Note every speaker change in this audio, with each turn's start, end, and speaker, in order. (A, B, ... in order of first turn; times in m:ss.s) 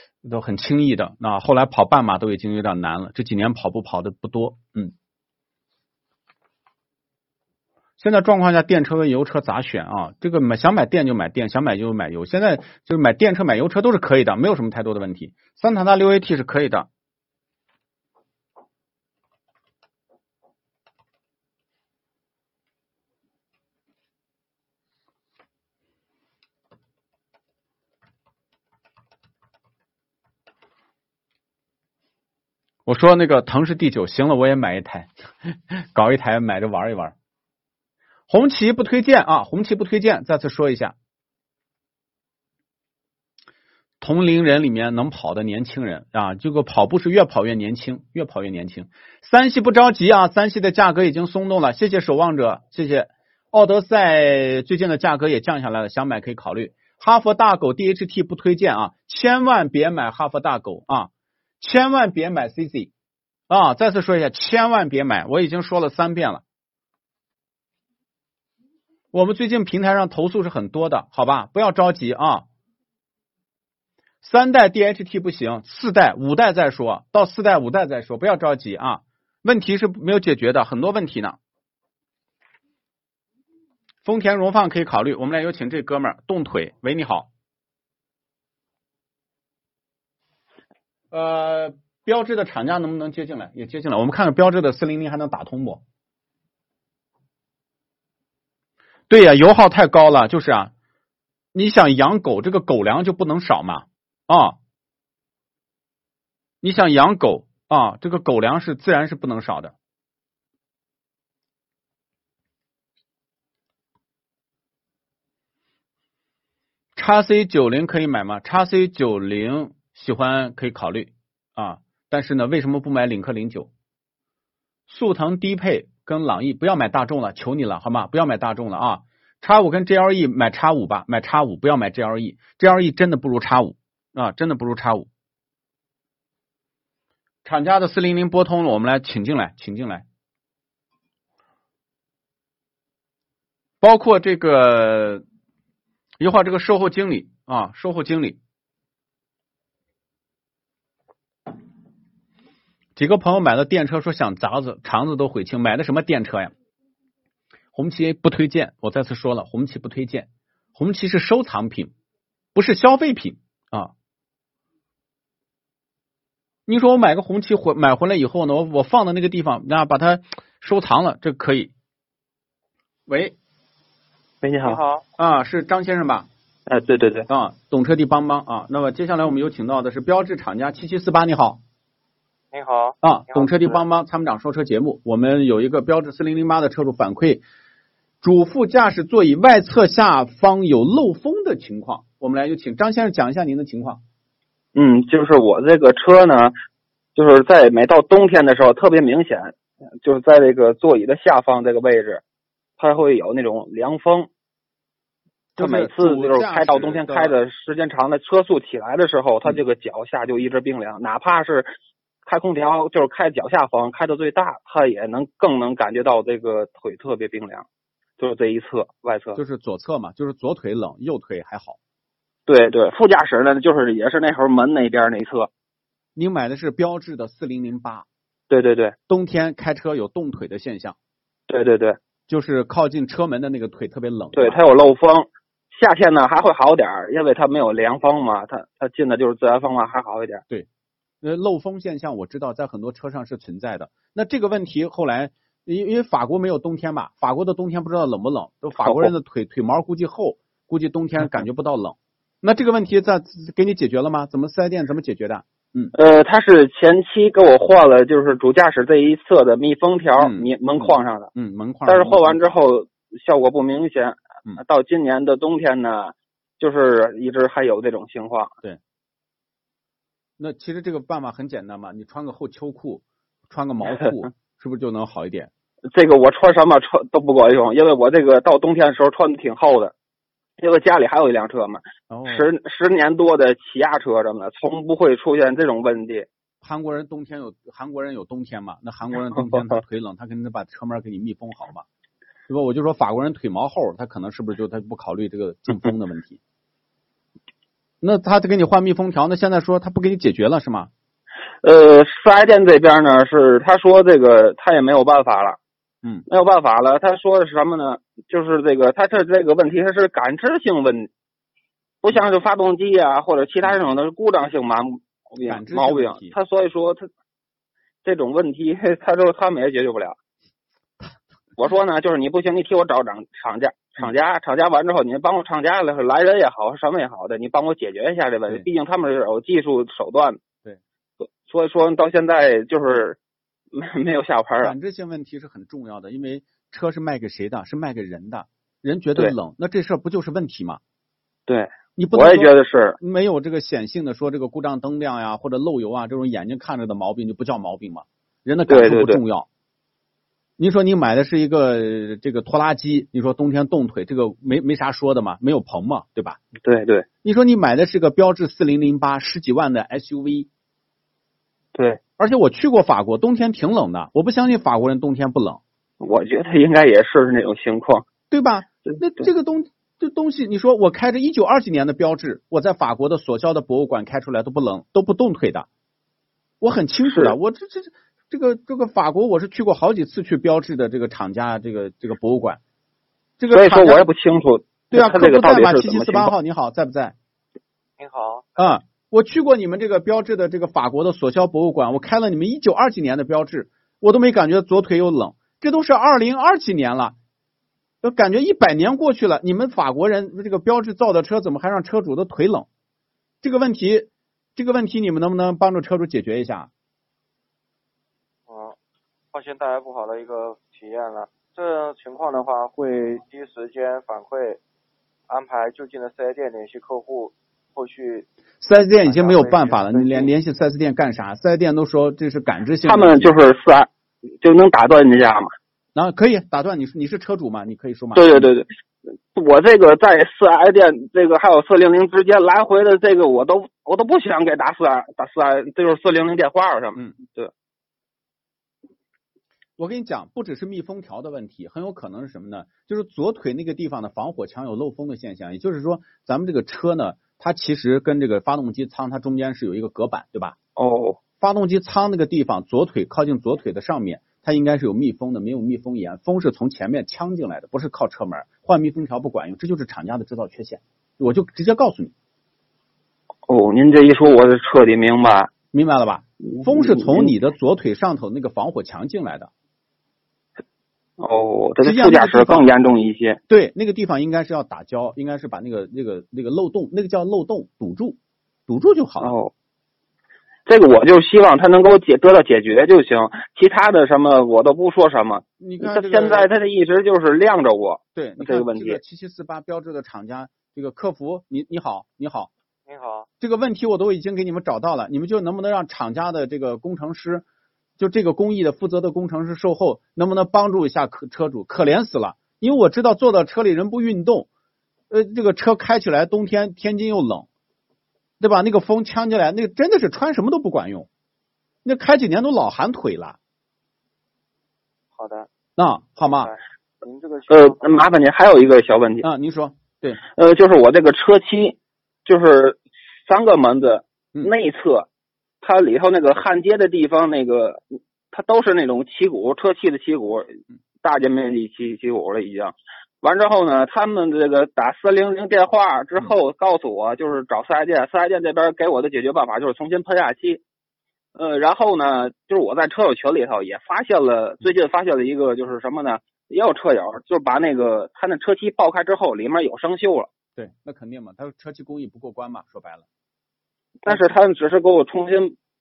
0:00.2-0:04.9 A
0:08.0-0:16.9 A
0:32.8-0:37.1 A
0:38.3-0:40.9 A
0:44.0-1:01.1 A
1:01.6-1:02.9 A
1:03.5-1:06.4 A
1:09.1-1:12.4 A
1:14.2-1:21.4 A
1:24.0-1:27.3 A
1:31.1-1:35.8 A
1:39.1-1:40.7 A
1:41.5-1:44.6 A
1:46.6-1:49.7 A
1:57.0-2:03.7 A
2:04.9-2:15.1 A
2:17.4-2:20.0 A
2:23.8-2:25.2 A
2:26.2-2:28.4 A
2:33.0-2:36.5 A
2:37.7-2:41.9 A
2:42.5-2:43.9 A
2:46.7-2:51.7 A
2:53.1-2:53.4 A
2:54.4-2:54.8 B
2:54.7-2:55.0 C
2:55.2-2:56.3 A
2:56.7-2:57.3 B
2:57.3-3:01.6 A
3:02.5-3:03.8 C
3:03.0-3:07.4 A
3:08.2-3:14.0 A
3:14.7-3:16.5 B
3:17.1-3:22.2 B
3:22.8-3:24.3 B
3:25.6-3:27.4 A
3:25.6-3:31.7 B
3:32.2-3:37.6 B
3:38.2-3:39.4 B
3:39.4-3:41.8 A
3:42.5-3:45.5 B
3:46.2-3:48.0 A
3:48.5-3:48.9 B
3:49.1-3:51.0 A
3:51.5-3:52.0 B
3:52.3-3:54.6 A
3:54.3-4:00.4 B
4:01.2-4:15.9 A
4:08.8-4:09.1 B
4:15.9-4:21.3 B
4:20.2-4:22.6 A
4:21.8-4:28.5 B
4:30.4-4:35.5 A
4:35.9-4:39.9 B
4:40.6-4:46.2 B
4:42.1-4:42.5 A
4:46.6-4:51.8 A
4:49.4-4:49.8 B
4:52.5-4:56.4 A
4:58.0-5:00.9 A
5:01.6-5:05.6 B
5:06.3-5:11.1 B
5:12.0-5:17.1 B
5:15.4-5:16.4 A
5:18.0-5:20.2 B
5:21.6-5:30.4 B
5:31.4-5:33.2 B
5:33.7-5:34.7 B
5:34.6-5:40.8 A
5:41.5-5:43.0 B
5:42.0-5:49.5 A
5:48.7-5:49.2 B
5:50.6-5:56.4 A
5:56.6-5:57.0 B
5:57.2-6:00.5 A
6:02.2-6:05.6 A
6:06.0-6:08.0 B
6:08.3-6:15.7 A
6:16.6-6:22.6 A
6:17.0-6:17.3 B
6:23.4-6:24.0 A
6:23.5-6:26.3 B
6:24.9-6:27.1 A
6:28.0-6:28.4 C
6:28.6-6:37.2 A
6:38.0-6:42.7 A
6:43.4-6:46.7 A
6:48.5-6:48.8 C
6:49.3-6:54.6 C
6:55.3-6:58.2 C
6:58.6-7:03.4 A
6:59.0-7:00.3 C
7:02.8-7:03.9 B
7:04.4-7:05.5 B
7:05.9-7:08.4 A
7:08.1-7:08.7 B
7:09.3-7:17.5 B
7:19.8-7:30.6 A
7:30.8-7:31.2 B
7:31.4-7:42.1 A
7:43.5-7:45.5 B
7:45.7-7:49.5 A
7:46.5-7:47.3 B
7:51.2-7:53.4 B
7:51.8-7:52.7 A
7:53.5-7:59.4 A
7:59.2-7:59.5 B
8:00.7-8:09.0 B
8:05.6-8:06.5 A
8:08.1-8:12.5 A
8:12.9-8:13.3 C
8:13.4-8:17.4 A
8:18.0-8:24.5 A
8:25.1-8:27.4 A
8:28.4-8:31.1 A
8:31.8-8:33.4 A
8:35.1-8:35.5 C
8:35.8-8:36.5 A
8:36.2-8:38.2 C
8:37.5-8:39.2 B
8:39.2-8:40.2 A
8:40.4-8:45.1 B
8:45.6-9:00.6 B
9:01.4-9:10.3 B
9:10.6-9:13.0 A
9:14.0-9:15.5 B